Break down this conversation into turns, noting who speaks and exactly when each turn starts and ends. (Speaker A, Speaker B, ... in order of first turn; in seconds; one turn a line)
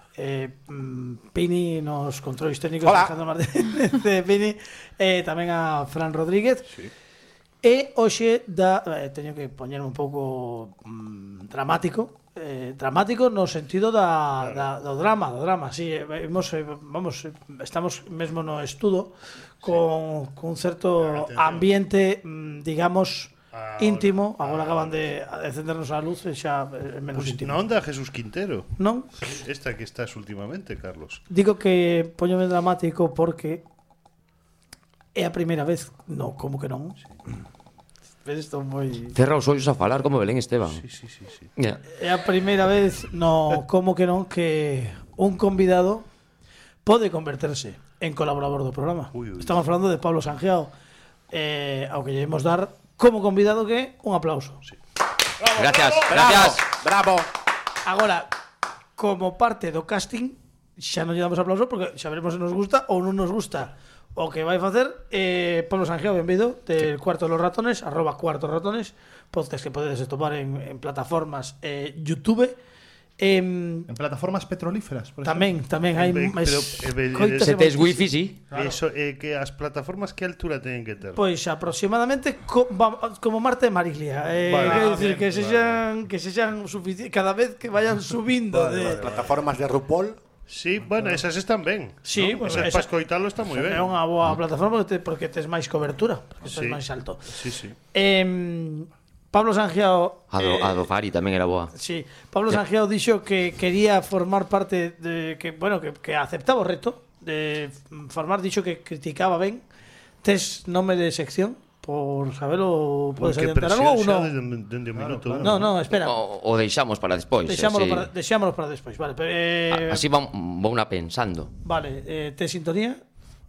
Speaker A: 0.2-6.7
Speaker B: 2.8-3.1
Speaker A: 7.6-27.6
Speaker C: 14.4-14.7
Speaker C: 21.0-21.7
Speaker C: 23.5-25.0
Speaker C: 27.1-31.2
Speaker A: 28.8-29.2
Speaker A: 31.3-33.6
Speaker A: 35.1-37.0
Speaker A: 38.2-39.2
Speaker D: 39.1-40.8
Speaker C: 40.8-41.5
Speaker A: 41.9-46.1
Speaker A: 46.9-50.7
Speaker C: 49.1-49.6
Speaker A: 51.3-54.6
Speaker C: 55.4-56.2
Speaker D: 55.5-56.6
Speaker B: 55.9-57.3
Speaker A: 57.9-58.3
Speaker A: 59.0-72.6
Speaker A: 73.2-73.9
Speaker E: 73.9-75.5
Speaker A: 75.2-78.1
Speaker C: 76.0-77.6
Speaker D: 77.4-78.4
Speaker E: 78.5-78.8
Speaker C: 78.5-81.2
Speaker A: 81.2-89.0
Speaker C: 84.5-85.8
Speaker E: 84.6-85.3
Speaker C: 88.8-89.3
Speaker B: 88.8-90.2
Speaker C: 90.5-94.0
Speaker A: 92.0-92.9
Speaker A: 93.5-97.3
Speaker C: 96.5-97.8
Speaker A: 97.9-100.8
Speaker D: 100.3-101.7
Speaker A: 101.7-109.6
Speaker A: 110.2-114.3
Speaker C: 113.2-115.7
Speaker E: 115.0-115.6
Speaker A: 115.4-116.2
Speaker D: 115.9-118.1
Speaker A: 117.5-120.0
Speaker D: 119.7-121.5
Speaker A: 121.6-123.0